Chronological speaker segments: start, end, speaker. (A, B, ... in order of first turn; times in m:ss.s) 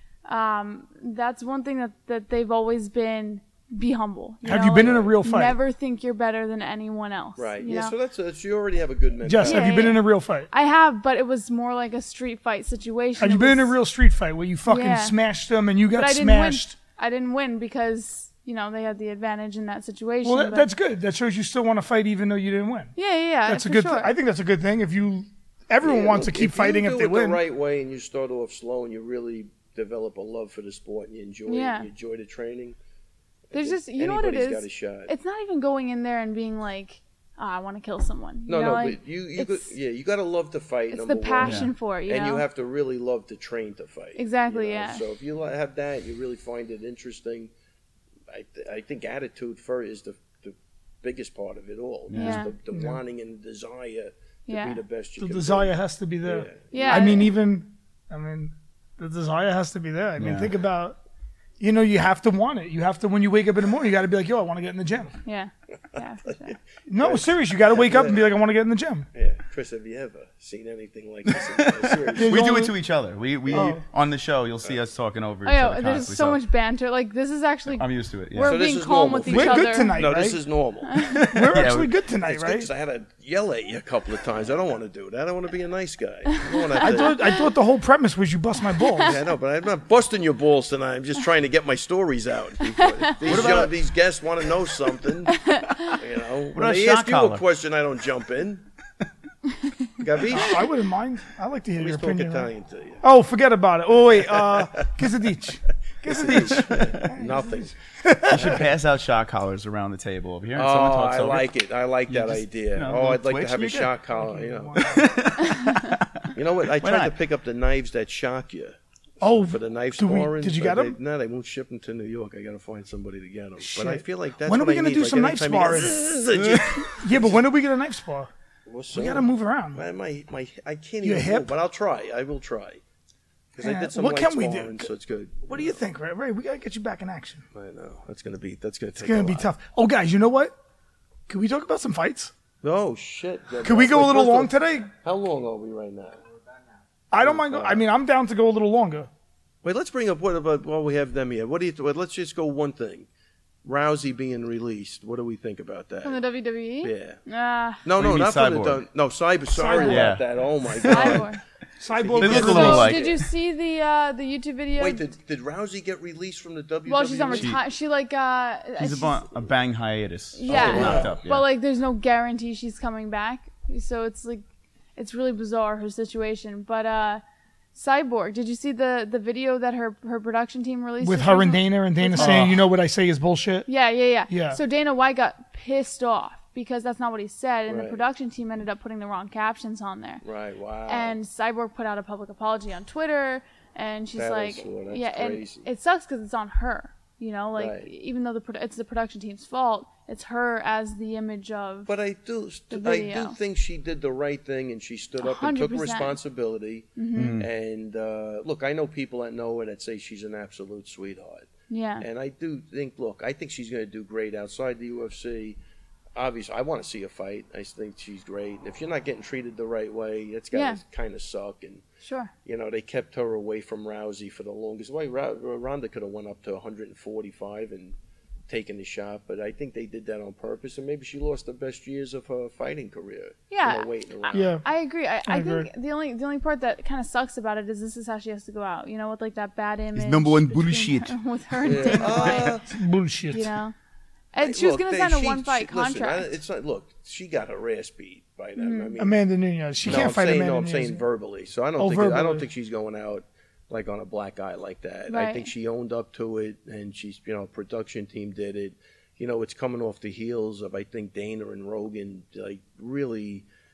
0:00.2-0:07.9 A
0:04.4-0:05.6 B
0:04.8-0:05.2 C
0:07.4-0:10.0 C
0:09.2-0:10.5 B
0:09.4-0:13.7 A
0:13.2-0:16.8 B
0:14.7-0:15.2 A
0:15.9-0:20.7 A
0:20.2-0:22.9 B
0:23.0-0:24.1 A
0:23.5-0:27.4 B
0:25.8-0:32.8 C
0:31.5-0:31.9 A
0:33.5-0:35.1 C
0:33.5-0:39.7 A
0:38.5-0:47.5 C
0:40.9-0:42.4 A
0:41.4-0:41.7 D
0:44.2-0:45.0 A
0:48.3-0:55.7 C
0:52.1-0:52.4 D
0:52.1-0:52.5 A
0:52.7-0:53.0 B
0:54.5-0:54.8 A
0:55.2-1:01.0 B
0:56.2-0:57.1 C
0:56.7-0:57.3 A
1:00.2-1:00.5 D
1:01.6-1:05.2 B
1:05.2-1:06.6 A
1:06.9-1:09.1 B
1:07.0-1:08.3 C
1:09.1-1:12.5 C
1:11.6-1:16.4 D
1:12.1-1:12.7 B
1:13.4-1:13.8 C
1:13.5-1:13.8 B
1:15.4-1:20.0 A
1:17.7-1:18.6 D
1:18.4-1:21.0 C
1:19.3-1:20.4 B
1:20.9-1:21.2 A
1:21.0-1:22.0 D
1:21.1-1:22.7 B
1:22.2-1:27.2 C
1:26.3-1:27.5 A
1:26.8-1:29.2 B
1:29.0-1:38.6 C
1:32.8-1:33.1 A
1:33.2-1:33.7 D
1:35.3-1:35.9 A
1:36.5-1:37.4 D
1:40.0-1:40.7 C
1:40.3-1:42.5 B
1:41.8-1:43.0 C
1:43.0-1:48.6 B
1:44.4-1:44.7 C
1:46.0-1:47.7 C
1:46.3-1:47.1 D
1:48.3-1:51.5 D
1:48.3-1:48.7 C
1:50.5-1:54.8 C
1:52.1-1:53.9 D
1:54.1-1:55.1 B
1:54.8-1:57.1 D
1:56.3-2:07.3 C
1:59.2-2:01.0 B
2:03.6-2:06.0 B
2:06.3-2:06.8 D
2:07.0-2:08.3 B
2:08.7-2:12.8 C
2:08.9-2:09.8 B
2:11.0-2:11.5 B
2:13.5-2:15.7 C
2:13.6-2:14.9 B
2:15.5-2:17.4 B
2:17.5-2:19.4 C
2:19.0-2:20.5 B
2:21.3-2:22.3 B
2:22.6-2:26.2 C
2:23.6-2:24.9 B
2:27.1-2:29.1 B
2:27.2-2:27.8 C
2:29.6-2:33.1 C
2:33.6-2:36.2 C
2:36.0-2:37.8 A
2:36.8-2:37.2 C
2:37.8-2:41.3 C
2:37.9-2:38.8 D
2:39.5-2:40.1 B
2:39.7-2:40.0 A
2:39.8-2:41.2 D
2:40.8-2:41.4 A
2:41.8-2:43.0 B
2:42.0-2:43.2 C
2:42.2-2:43.2 D
2:42.2-2:45.0 A
2:44.8-2:47.5 C
2:46.9-2:49.3 A
2:47.3-2:47.6 D
2:48.8-2:51.5 D
2:50.3-2:54.4 A
2:50.5-2:51.2 C
2:55.0-2:57.2 A
2:57.7-3:02.5 A
3:01.0-3:03.7 B
3:02.2-3:02.6 D
3:03.7-3:10.2 A
3:04.3-3:04.6 B
3:07.7-3:08.0 C
3:10.2-3:11.2 C
3:10.9-3:21.9 A
3:14.1-3:15.7 C
3:17.6-3:17.9 C
3:21.9-3:31.5 C
3:22.7-3:23.4 A
3:25.2-3:26.2 A
3:27.0-3:27.4 A
3:27.2-3:27.5 D
3:31.7-3:32.0 A
3:32.0-3:35.6 C
3:36.1-3:41.8 C
3:40.5-3:40.8 A
3:42.0-3:42.3 A
3:42.4-3:47.9 C
3:48.5-3:54.5 C
3:53.5-4:02.6 A
3:54.3-3:54.6 B
3:55.2-3:55.7 B
3:59.9-4:01.1 D
4:01.6-4:02.7 C
4:01.8-4:02.5 D
4:02.7-4:03.5 B
4:03.3-4:03.7 A
4:04.3-4:06.3 A
4:04.4-4:09.2 C
4:08.6-4:08.9 A
4:09.0-4:11.0 B
4:09.8-4:23.4 C
4:11.8-4:12.4 B
4:15.1-4:15.5 A